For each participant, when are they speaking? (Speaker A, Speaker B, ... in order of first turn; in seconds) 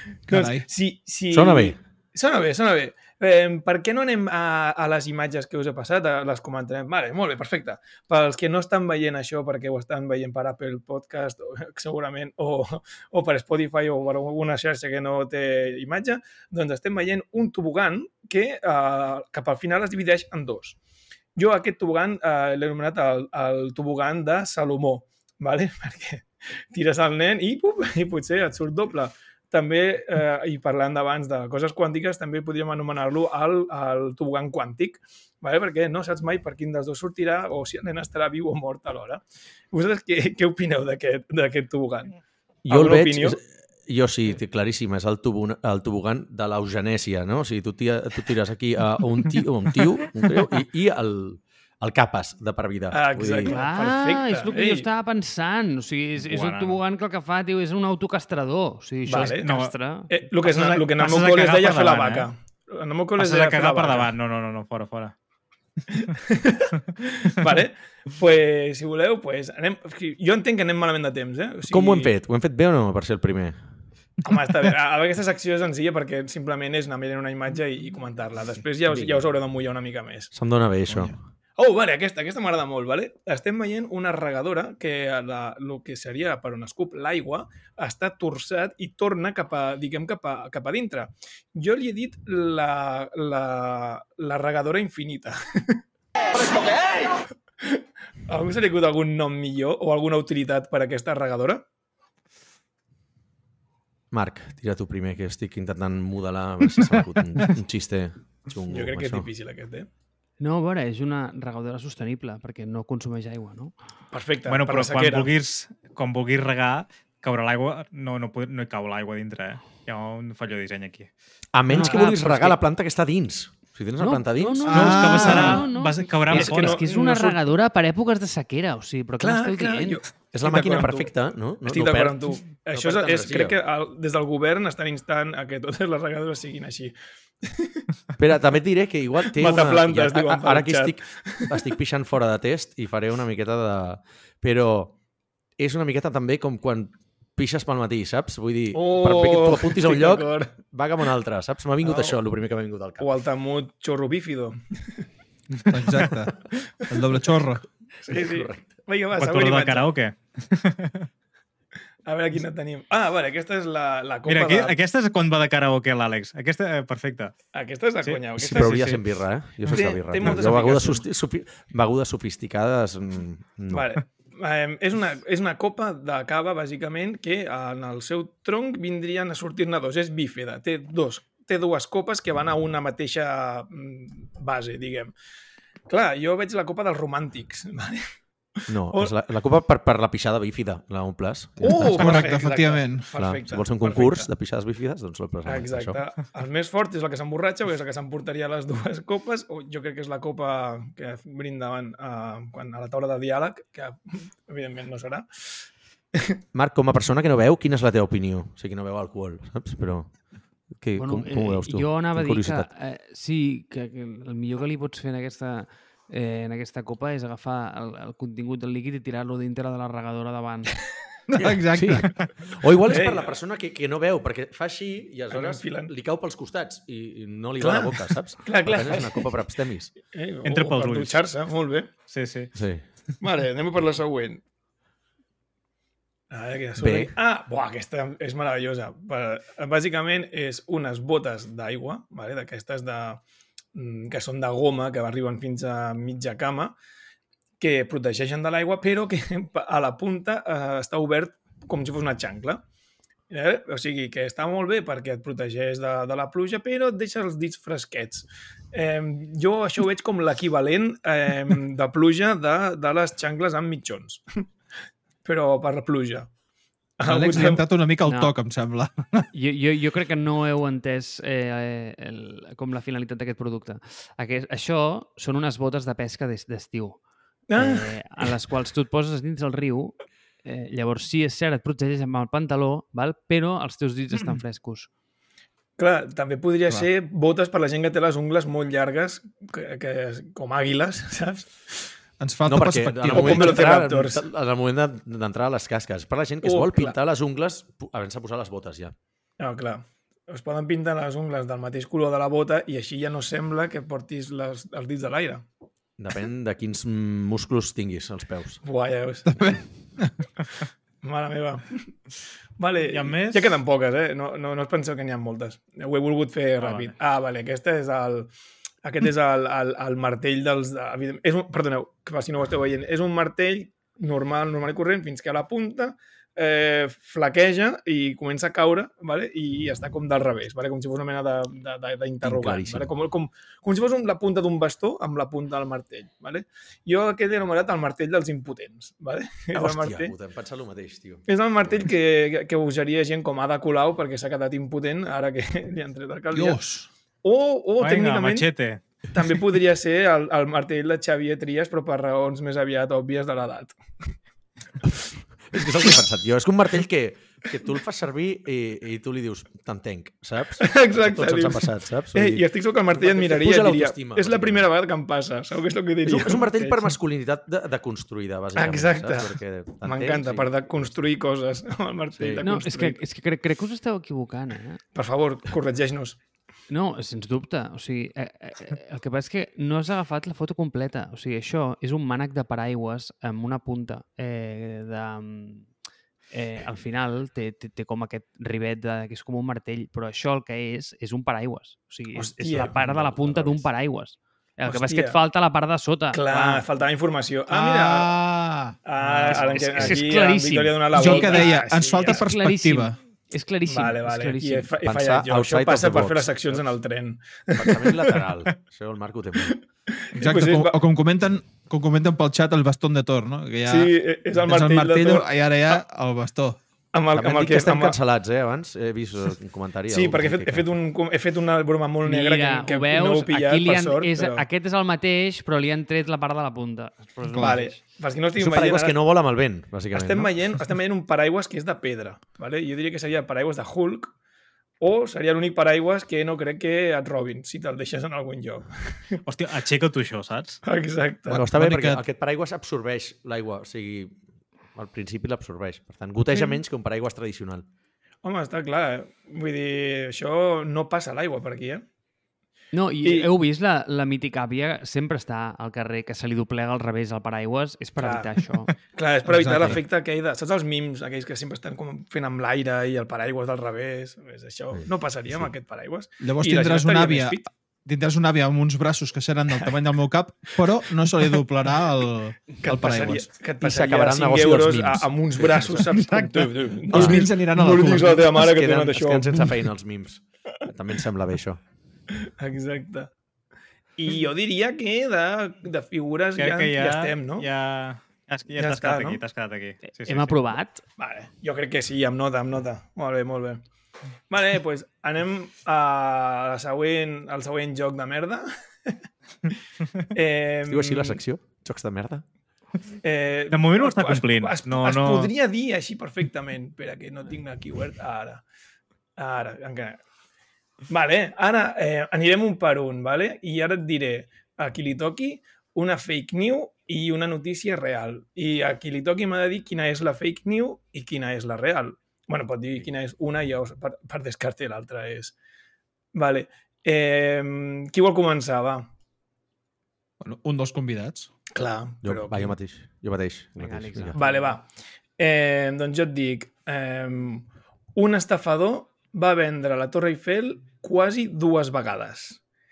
Speaker A: 0.3-0.7, 80.9-81.2, 124.7-125.6, 155.7-156.3, 156.9-157.7, 191.7-193.1, 221.3-222.1, 267.1-269.3, 292.2-293.7, 309.3-310.3, 346.3-346.9, 397.5-399.5, 400.9-403.0, 410.1-416.6, 427.3-427.6, 441.3-442.0, 459.3-459.8, 466.2-473.3, 475.9-478.3, 530.2-531.3
Speaker B: 0.3-20.8, 21.4-43.4, 52.9-54.9, 59.1-59.5, 60.1-64.1, 65.9-72.1, 74.2-80.3, 81.6-95.8, 96.4-101.6, 108.7-109.9, 114.1-115.3, 121.7-122.5, 125.2-125.5, 126.3-127.4, 129.2-131.1, 131.7-137.8, 139.3-141.6, 148.7-150.6, 151.8-152.2, 153.0-155.1, 158.0-159.9, 162.1-164.8, 167.5-168.9, 169.7-171.1, 173.7-185.1, 185.9-189.1, 191.6-194.3, 195.4-206.4, 222.9-223.3, 225.3-225.9, 227.6-229.4, 230.0-231.9, 233.2-234.4, 236.3-243.2, 243.7-246.8, 247.6-252.6, 253.3-264.5, 265.2-266.3, 267.0-267.6, 277.5-278.0, 285.8-291.5, 293.1-294.2, 296.4-297.0, 299.4-305.5, 308.6-309.5, 311.0-311.9, 312.6-318.3, 318.8-340.1, 341.3-346.6, 347.2-348.5, 349.1-353.8, 360.6-366.9, 368.6-373.0, 374.9-376.2, 392.1-392.8, 394.7-395.2, 396.1-398.2, 398.9-402.2, 403.7-408.2, 409.4-410.8, 413.7-415.8, 416.9-418.0, 419.9-424.4, 427.4-429.0, 429.9-434.1, 434.8-439.2, 440.6-441.4, 448.2-451.8, 453.0-453.3, 458.0-467.5, 472.6-479.6, 482.2-483.1, 484.0-487.5, 488.6-489.2, 491.0-493.6, 494.3-499.6, 500.1-501.2, 503.0-508.4, 509.2-510.0, 510.9-525.4, 526.1-528.9, 531.5-532.5, 534.1-534.7, 535.2-542.4
Speaker C: 1.3-1.8, 42.6-53.6, 71.7-73.6, 78.9-79.3, 80.3-81.2, 104.1-109.3, 121.5-125.5, 130.3-133.6, 138.2-145.0, 145.6-153.1, 158.1-158.7, 168.4-173.9, 188.7-192.2, 193.2-196.0, 206.5-210.1, 210.7-212.7, 221.4-230.0, 232.6-232.8, 236.8-237.2, 292.5-298.9, 306.0-308.6, 332.2-332.9, 339.5-341.9, 355.5-364.7, 366.1-370.5, 372.1-372.4, 392.7-393.6, 404.8-406.6, 407.5-409.6, 417.1-420.7, 428.4-430.6, 441.3-444.2, 444.8-447.7, 464.7-465.5, 473.6-475.9, 476.9-481.6, 500.7-502.2, 532.0-534.2
Speaker D: 53.5-60.1, 110.4-113.7, 121.7-122.3, 124.0-130.0, 211.0-220.7, 268.1-268.3, 269.3-277.0, 277.6-284.9, 372.4-374.8, 376.7-385.7, 386.3-396.6, 399.2-404.7, 422.0-427.8, 452.7-458.8, 489.9-490.8, 533.6-534.6
Speaker E: 56.2-56.8, 59.2-59.7, 60.4-62.3, 63.2-65.1, 114.5-121.1, 124.7-126.8, 159.2-161.1, 164.3-167.4, 168.0-169.0, 169.7-170.4, 230.4-231.3, 232.1-232.6, 312.9-313.6, 316.6-316.9, 347.8-348.8, 439.2-440.6, 486.4-490.4, 503.5-505.3